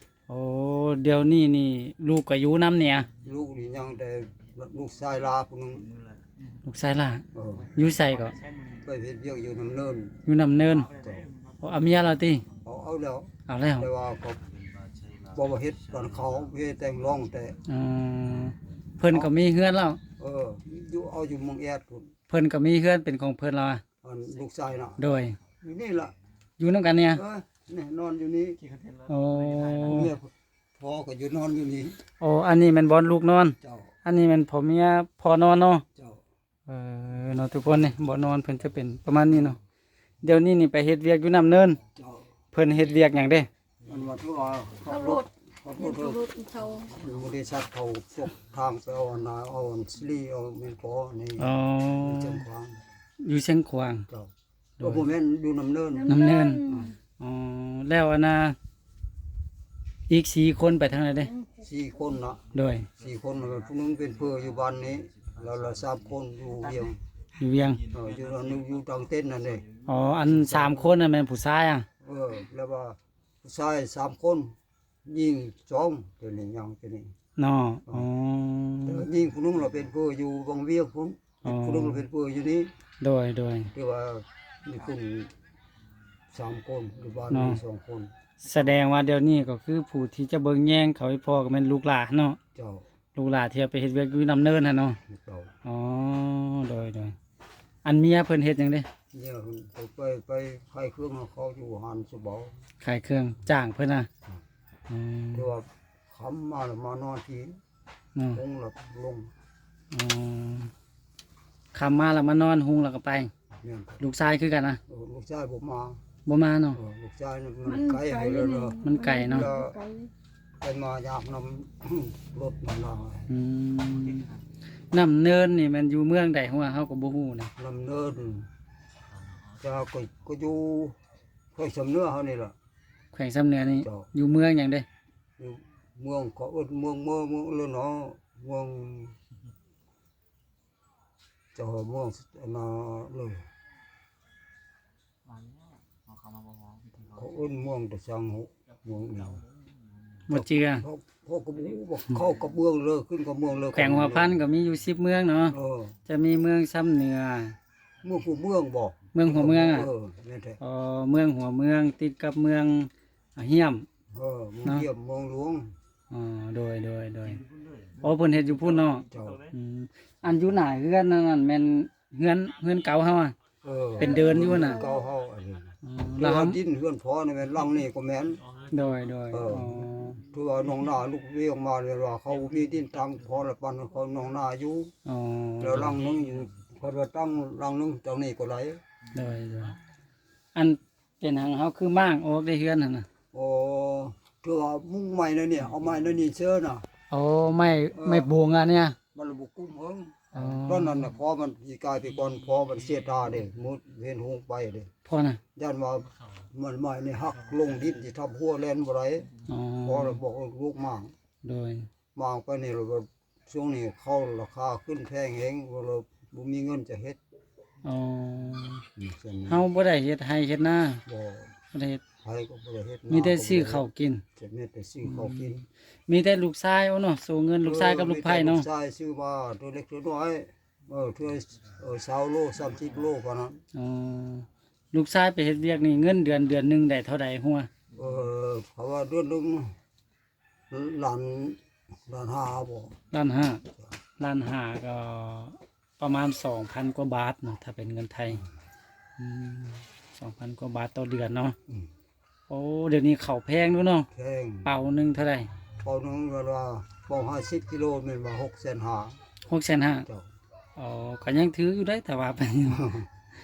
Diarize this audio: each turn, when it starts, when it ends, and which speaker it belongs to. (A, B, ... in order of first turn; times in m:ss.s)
0:00.3-0:03.1 A
0:03.2-0:05.9 B
0:06.6-0:08.4 A
0:07.3-0:07.7 B
0:08.7-0:10.2 B
0:10.3-0:10.9 A
0:10.9-0:11.3 B
0:11.6-0:12.4 A
0:12.6-0:14.4 B
0:13.5-0:13.9 A
0:15.2-0:17.6 B
0:17.7-0:20.0 A
0:20.2-0:22.1 B
0:22.3-0:23.8 A
0:24.0-0:25.0 B
0:25.0-0:25.4 A
0:25.6-0:26.1 B
0:26.6-0:27.2 A
0:27.1-0:28.6 B
0:29.1-0:30.1 A
0:29.8-0:32.0 B
0:32.2-0:35.8 A
0:33.6-0:33.9 B
0:36.7-0:39.6 A
0:40.2-0:41.8 A
0:42.0-0:42.2 B
0:42.5-0:43.5 A
0:43.8-0:46.2 B
0:44.9-0:47.0 C
0:46.9-0:52.8 B
0:51.4-0:52.4 A
0:53.2-0:54.1 A
0:54.1-0:56.1 B
0:56.0-0:56.9 C
0:56.1-0:56.6 A
0:56.7-0:57.0 B
0:57.2-0:58.6 A
1:00.1-1:01.3 A
1:01.3-1:01.6 C
1:01.6-1:07.0 B
1:02.5-1:02.9 A
1:07.4-1:07.8 A
1:07.9-1:09.7 B
1:09.8-1:11.9 A
1:10.2-1:10.9 B
1:12.0-1:14.5 B
1:15.1-1:17.1 B
1:17.4-1:19.0 A
1:18.8-1:22.7 B
1:21.4-1:22.0 A
1:23.0-1:23.7 A
1:23.7-1:25.3 B
1:26.3-1:28.1 B
1:27.3-1:27.6 A
1:28.4-1:32.4 A
1:32.6-1:32.8 B
1:33.2-1:35.0 A
1:35.1-1:35.5 B
1:35.6-1:37.2 A
1:37.8-1:38.9 A
1:39.1-1:42.5 B
1:42.8-1:44.1 A
1:44.9-1:45.5 A
1:45.3-1:47.6 B
1:48.2-1:48.4 A
1:48.3-1:49.3 B
1:49.9-1:50.7 A
1:51.7-1:53.3 A
1:53.6-1:54.0 B
1:54.0-1:54.8 A
1:54.9-1:56.0 B
1:56.3-1:56.8 A
1:56.7-1:59.8 B
1:57.7-2:00.1 C
1:58.8-1:59.5 A
2:00.6-2:03.3 B
2:03.3-2:04.3 A
2:04.9-2:07.5 A
2:07.6-2:08.5 B
2:09.6-2:11.0 B
2:11.5-2:12.6 B
2:13.1-2:14.9 A
2:13.8-2:14.1 B
2:15.4-2:19.2 B
2:21.6-2:23.5 B
2:27.1-2:29.4 B
2:30.3-2:30.8 A
2:30.3-2:34.4 B
2:33.8-2:37.6 A
2:35.5-2:36.0 B
2:38.0-2:40.6 B
2:39.1-2:39.9 A
2:40.6-2:43.9 A
2:44.1-2:45.7 B
2:46.1-2:47.4 A
2:48.0-2:53.4 A
2:49.1-2:49.5 B
2:53.6-2:58.4 B
2:54.0-2:54.8 A
2:54.0-2:55.0 C
2:55.8-2:56.6 A
2:58.7-3:00.2 A
2:59.3-3:04.9 B
3:05.1-3:06.0 A
3:05.6-3:08.8 B
3:09.1-3:09.8 A
3:10.6-3:13.1 A
3:13.3-3:16.9 B
3:17.1-3:19.0 A
3:17.9-3:18.4 B
3:19.1-3:24.9 B
3:20.3-3:21.1 A
3:25.0-3:25.4 A
3:25.6-3:29.3 B
3:29.5-3:30.2 A
3:29.8-3:31.1 B
3:31.4-3:31.9 A
3:32.2-3:37.2 B
3:37.8-3:38.8 A
3:39.0-3:39.6 B
3:39.5-3:41.0 A
3:41.1-3:41.5 B
3:41.7-3:42.0 A
3:42.2-3:43.8 B
3:43.1-3:44.2 A
3:44.4-3:45.7 B
3:45.0-3:45.5 A
3:46.1-3:48.7 A
3:47.6-3:53.6 B
3:53.8-3:57.7 A
3:57.9-3:59.7 B
4:00.7-4:03.0 B
4:03.1-4:03.6 A
4:04.2-4:08.4 A
4:09.2-4:11.6 A
4:12.5-4:14.1 A
4:14.1-4:14.7 B
4:14.6-4:15.5 A
4:15.8-4:19.2 B
4:19.5-4:20.1 A
4:20.8-4:22.9 A
4:22.7-4:23.1 B